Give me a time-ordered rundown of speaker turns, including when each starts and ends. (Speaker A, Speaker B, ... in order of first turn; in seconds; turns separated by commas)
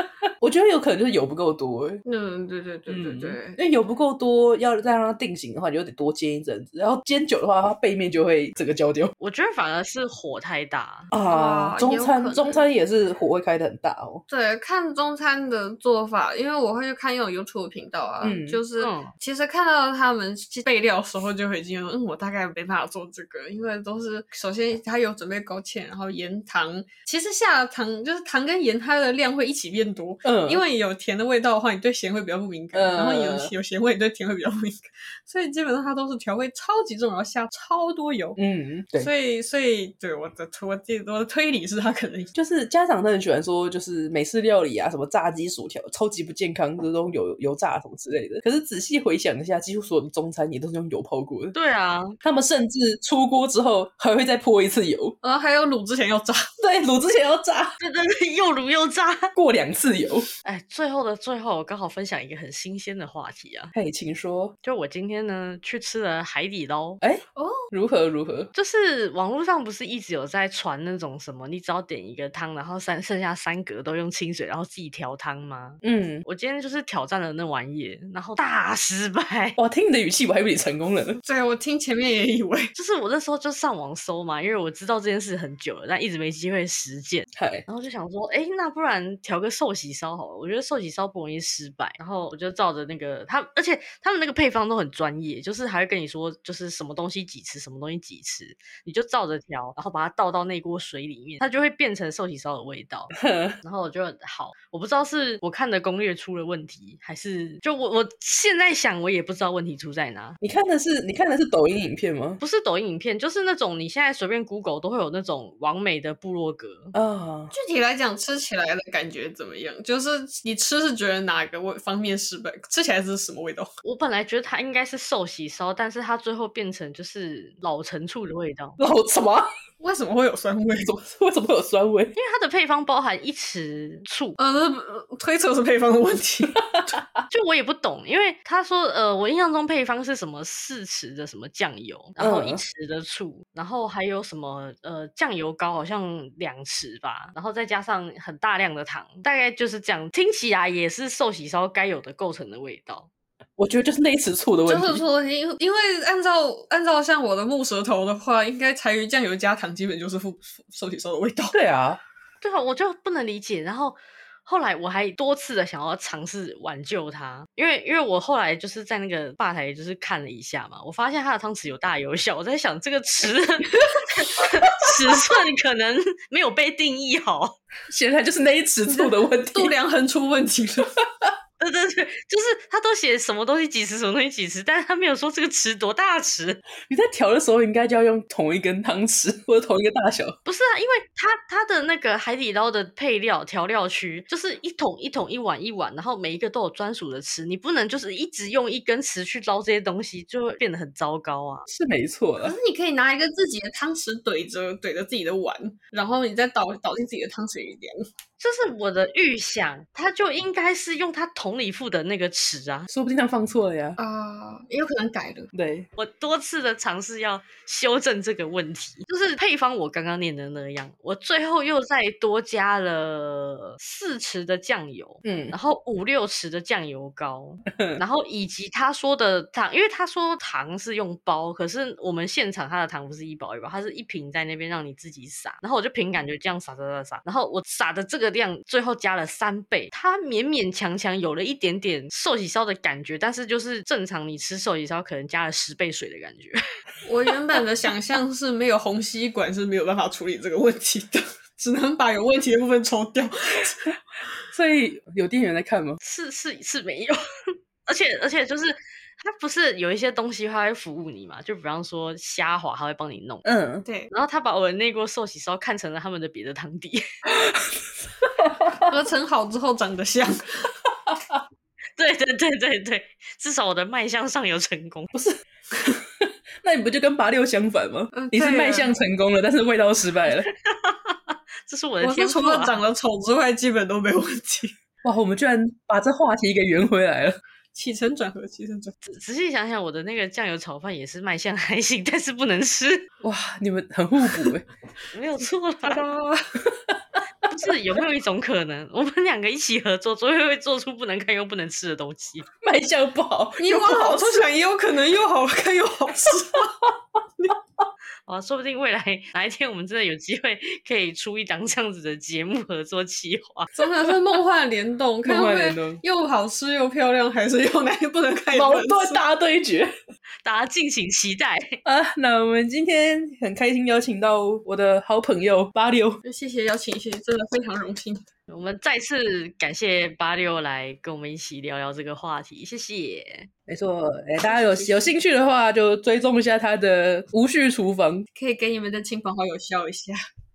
Speaker A: 0.4-2.0, Speaker B: 2.0-3.6, Speaker A: 2.9-9.1, Speaker C: 9.2-11.1, Speaker A: 11.1-14.2, Speaker B: 11.2-12.6, Speaker B: 14.3-38.4, Speaker A: 18.2-18.6, Speaker C: 18.8-19.1, Speaker A: 30.2-30.6, Speaker A: 32.7-33.5, Speaker A: 38.4-39.1, Speaker B: 39.0-42.3, Speaker A: 42.3-51.5, Speaker C: 51.5-52.1, Speaker A: 52.2-55.1, Speaker B: 55.2-56.5, Speaker A: 56.6-57.8, Speaker C: 57.8-59.3, Speaker A: 59.3-60.3, Speaker C: 60.4-63.7, Speaker A: 63.7-64.5, Speaker C: 64.6-67.0, Speaker A: 67.0-68.5, Speaker B: 67.3-67.7, Speaker C: 68.5-79.6, Speaker A: 75.8-76.2, Speaker A: 79.6-81.2, Speaker B: 81.2-82.7, Speaker C: 82.7-110.4, Speaker A: 87.3-87.6, Speaker A: 103.1-103.6, Speaker A: 110.4-112.4, Speaker C: 112.4-116.9, Speaker A: 116.9-117.5, Speaker B: 117.5-123.7, Speaker C: 123.8-128.8, Speaker A: 128.8-129.5, Speaker B: 129.8-131.0, Speaker A: 130.9-132.1, Speaker C: 132.1-134.4, Speaker B: 134.4-136.6, Speaker A: 136.6-137.2, Speaker C: 137.3-153.1, Speaker A: 142.2-142.6, Speaker A: 153.6-155.0, Speaker B: 154.7-161.6, Speaker A: 161.5-162.0, Speaker C: 162.4-177.6, Speaker A: 177.9-179.7, Speaker B: 178.9-180.9, Speaker A: 181.0-181.3, Speaker C: 181.6-186.6, Speaker A: 186.9-190.3, Speaker C: 190.4-201.7, Speaker A: 201.7-202.6, Speaker B: 202.4-208.0, Speaker C: 208.4-212.9, Speaker A: 212.9-214.0, Speaker B: 214.0-215.5, Speaker A: 215.5-215.9, Speaker C: 216.0-246.6, Speaker A: 225.2-225.5, Speaker A: 227.7-228.0, Speaker B: 247.0-253.9, Speaker A: 254.5-256.0, Speaker C: 256.0-263.4, Speaker A: 263.4-263.8, Speaker B: 263.8-264.1, Speaker C: 264.1-267.0, Speaker A: 267.3-268.8, Speaker B: 268.8-270.7, Speaker A: 271.1-271.4, Speaker C: 272.0-275.1, Speaker A: 275.1-275.4, Speaker A: 276.2-280.5, Speaker B: 278.1-278.9, Speaker C: 280.4-282.8, Speaker B: 282.0-284.7, Speaker A: 285.0-287.4, Speaker B: 287.7-288.9, Speaker C: 289.0-293.1, Speaker A: 293.2-294.7, Speaker C: 295.1-296.0, Speaker B: 295.8-296.6, Speaker A: 296.7-297.0, Speaker C: 297.5-302.5, Speaker A: 302.6-304.4, Speaker B: 303.6-306.7, Speaker A: 306.3-306.6, Speaker C: 308.3-313.7, Speaker B: 313.8-319.2, Speaker A: 315.2-316.0, Speaker A: 318.5-319.9, Speaker C: 320.4-321.8, Speaker A: 321.8-326.2, Speaker B: 326.2-328.2, Speaker C: 328.5-333.5, Speaker A: 333.7-338.2, Speaker B: 334.5-335.1, Speaker B: 338.3-340.2